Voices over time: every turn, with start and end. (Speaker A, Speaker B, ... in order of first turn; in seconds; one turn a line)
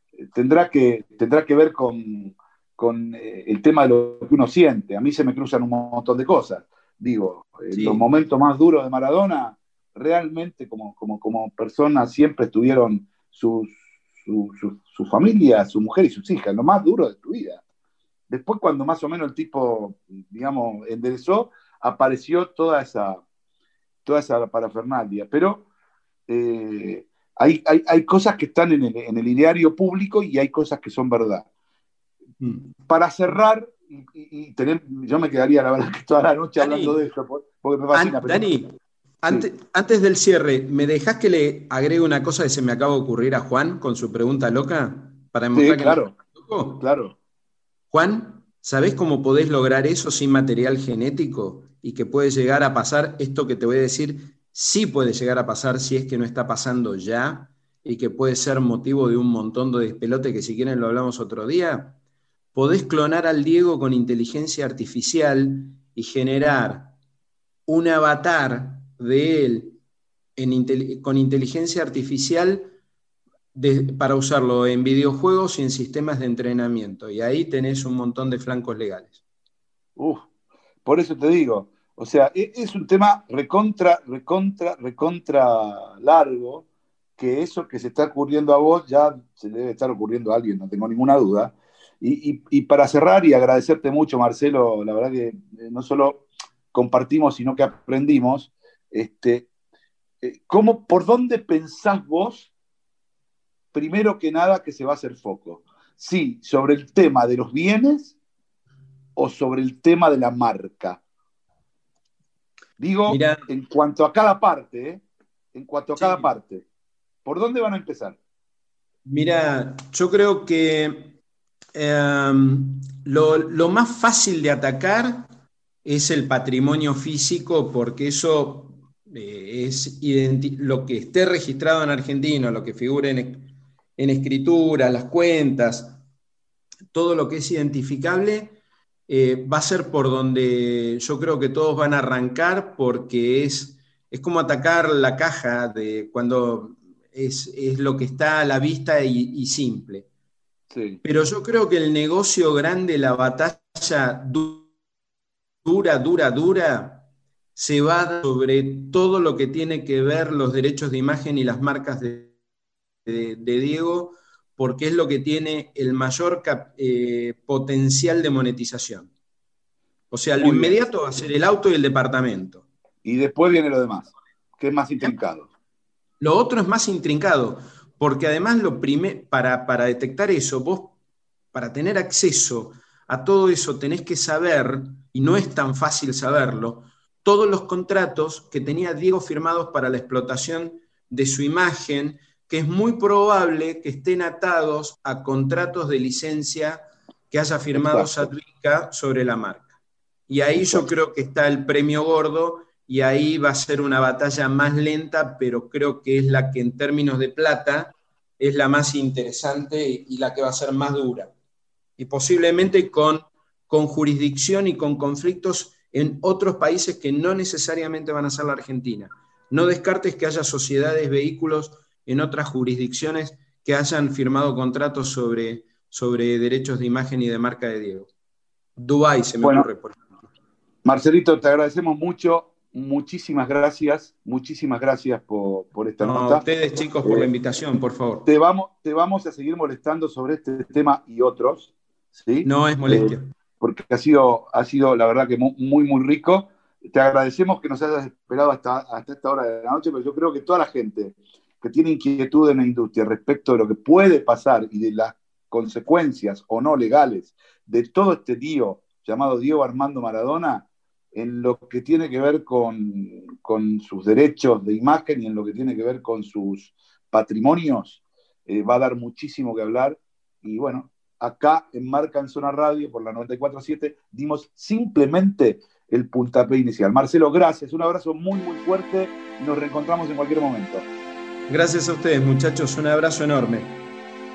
Speaker A: 0.2-17.6
Speaker B: 7.7-8.1
Speaker A: 18.3-23.2
Speaker A: 24.1-25.6
Speaker A: 26.3-31.4
Speaker B: 32.4-32.7
Speaker A: 32.9-38.5
Speaker B: 36.6-37.0
Speaker B: 37.9-46.8
Speaker A: 45.5-46.1
Speaker A: 46.8-47.1
Speaker B: 47.9-62.0
Speaker B: 62.5-66.9
Speaker B: 67.7-69.8
Speaker B: 70.4-72.7
Speaker B: 73.5-79.2
Speaker A: 80.0-80.2
Speaker A: 80.8-86.7
Speaker A: 87.2-99.5
Speaker A: 100.2-102.5
Speaker A: 103.7-108.2
Speaker A: 109.2-111.0
Speaker A: 112.8-116.6
Speaker B: 113.1-113.5
Speaker B: 115.9-116.3
Speaker A: 117.2-118.2
Speaker B: 119.0-121.2
Speaker B: 121.7-125.3
Speaker B: 125.8-136.0
Speaker B: 136.9-150.1
Speaker A: 150.7-151.0
Speaker B: 151.0-154.7
Speaker B: 155.6-162.3
Speaker B: 163.1-169.1
Speaker B: 170.1-172.6
Speaker A: 170.4-170.8
Speaker A: 173.0-175.5
Speaker B: 176.2-180.9
Speaker B: 181.5-199.7
Speaker A: 197.7-198.3
Speaker B: 200.3-211.3
Speaker A: 200.5-200.9
Speaker B: 212.0-228.1
Speaker B: 228.8-230.0
Speaker A: 229.4-229.7
Speaker A: 230.8-236.4
Speaker B: 236.0-238.3
Speaker A: 238.3-280.9
Speaker B: 242.4-243.3
Speaker B: 281.5-283.8